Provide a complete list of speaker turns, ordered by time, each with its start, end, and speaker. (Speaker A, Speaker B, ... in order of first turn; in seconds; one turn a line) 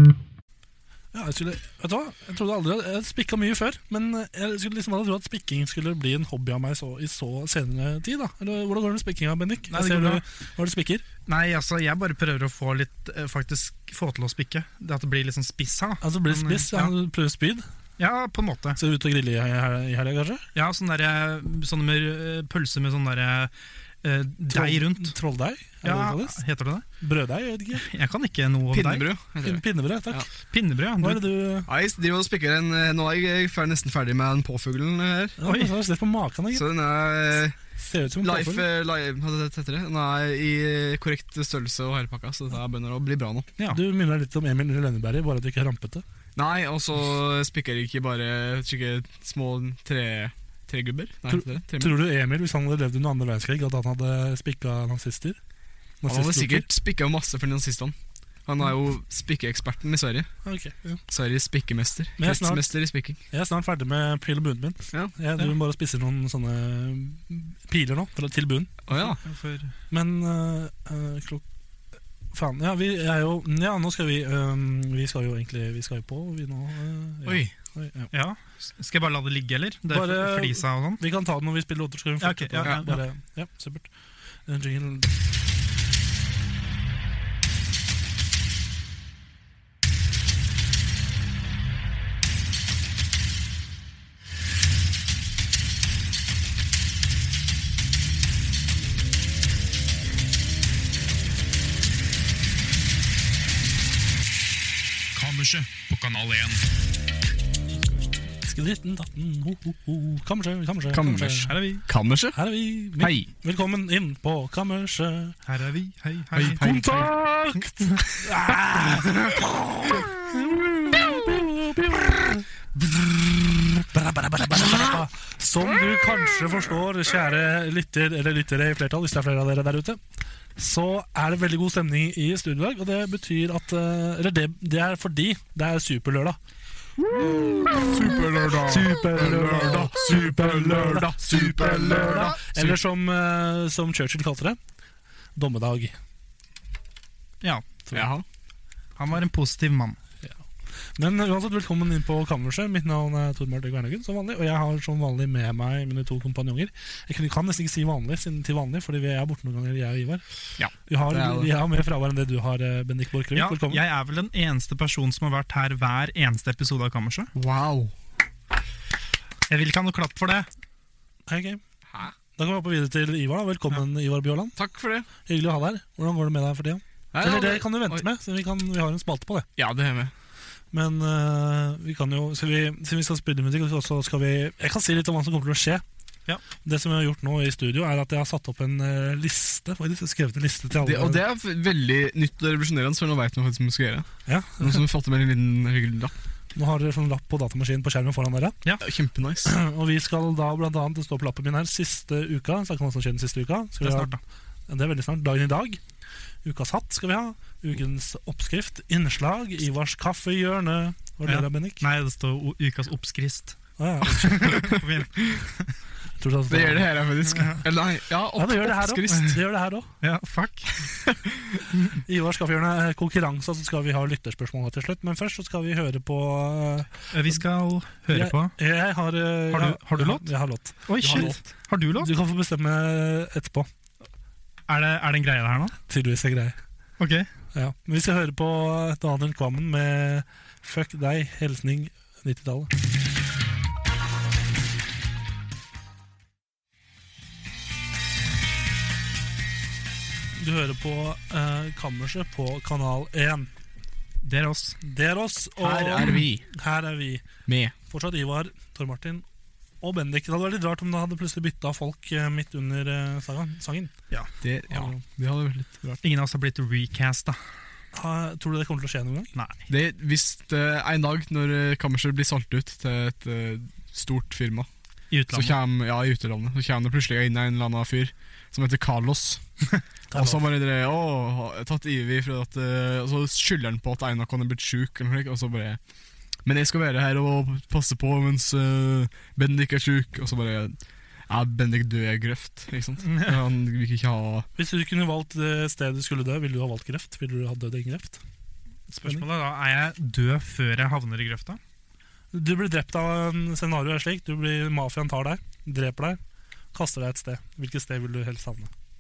Speaker A: 1.1-11.1
Speaker B: 9.7-10.2
Speaker B: 11.3-16.9
Speaker A: 16.0-17.6
Speaker B: 18.0-18.8
Speaker A: 18.8-20.5
Speaker B: 20.6-25.2
Speaker A: 24.5-26.4
Speaker B: 25.8-26.9
Speaker A: 27.0-27.9
Speaker B: 27.8-29.1
Speaker C: 28.7-30.3
Speaker A: 29.4-30.3
Speaker B: 30.5-31.2
Speaker A: 31.0-31.7
Speaker C: 31.7-35.4
Speaker A: 35.4-36.7
Speaker B: 35.4-35.7
Speaker C: 36.5-37.6
Speaker A: 37.8-38.7
Speaker C: 38.2-43.5
Speaker A: 43.7-46.0
Speaker C: 46.4-52.0
Speaker A: 51.3-55.4
Speaker A: 56.0-56.7
Speaker C: 56.1-58.0
Speaker C: 58.5-60.4
Speaker A: 60.4-61.0
Speaker C: 61.1-63.2
Speaker A: 62.2-62.8
Speaker A: 63.3-68.9
Speaker C: 68.9-69.2
Speaker B: 68.9-69.7
Speaker A: 69.9-71.4
Speaker A: 72.3-78.1
Speaker C: 77.3-77.5
Speaker B: 78.1-81.0
Speaker A: 79.9-83.9
Speaker B: 82.2-83.0
Speaker A: 84.5-85.1
Speaker B: 105.1-106.7
Speaker A: 108.5-111.5
Speaker C: 110.9-112.4
Speaker B: 111.5-111.8
Speaker A: 112.3-115.4
Speaker C: 113.0-113.3
Speaker B: 115.5-116.6
Speaker C: 116.3-117.2
Speaker A: 116.6-122.5
Speaker B: 117.6-118.1
Speaker B: 122.8-123.7
Speaker A: 123.9-130.0
Speaker A: 130.6-136.4
Speaker C: 137.2-142.7
Speaker A: 137.2-137.9
Speaker A: 138.6-144.6
Speaker A: 145.4-145.9
Speaker B: 147.4-147.8
Speaker C: 147.9-148.2
Speaker B: 149.0-150.0
Speaker A: 150.9-160.2
Speaker C: 160.6-161.5
Speaker A: 160.9-163.8
Speaker B: 163.3-167.3
Speaker C: 167.3-167.9
Speaker B: 169.5-170.5
Speaker A: 171.3-171.6
Speaker A: 172.3-174.5
Speaker C: 174.6-175.1
Speaker A: 175.2-179.5
Speaker C: 177.1-178.1
Speaker C: 179.6-180.1
Speaker A: 180.7-185.8
Speaker A: 186.6-191.2
Speaker C: 190.8-196.1
Speaker A: 194.3-194.8
Speaker A: 196.6-198.6
Speaker C: 198.8-199.5
Speaker A: 199.4-204.2
Speaker B: 203.8-204.2
Speaker A: 204.7-205.8
Speaker A: 206.4-211.8
Speaker B: 211.2-215.8
Speaker A: 213.8-214.8
Speaker A: 216.2-216.9
Speaker C: 216.5-219.3
Speaker B: 217.3-217.6
Speaker A: 218.4-219.9
Speaker B: 220.0-220.7
Speaker B: 221.7-222.0
Speaker A: 222.1-226.9
Speaker B: 227.1-228.5
Speaker A: 228.1-231.3
Speaker B: 229.5-232.1
Speaker C: 231.0-231.4
Speaker A: 232.0-233.7
Speaker B: 234.7-235.8
Speaker A: 235.9-236.6
Speaker B: 237.0-237.3
Speaker A: 237.5-242.7
Speaker A: 250.4-253.5
Speaker B: 254.2-254.8
Speaker A: 254.8-257.2
Speaker C: 255.6-256.5
Speaker C: 257.5-257.7
Speaker A: 257.9-259.2
Speaker A: 259.8-263.9
Speaker C: 264.4-266.0
Speaker B: 266.0-267.4
Speaker A: 267.9-269.3
Speaker B: 269.4-269.7
Speaker C: 269.7-274.7
Speaker B: 275.1-275.6
Speaker C: 275.3-279.4
Speaker A: 280.1-280.4
Speaker C: 280.1-285.8
Speaker C: 286.4-290.8
Speaker C: 291.3-294.5
Speaker B: 293.1-293.4
Speaker A: 294.6-298.2
Speaker B: 298.9-301.6
Speaker A: 302.3-306.2
Speaker A: 306.7-308.7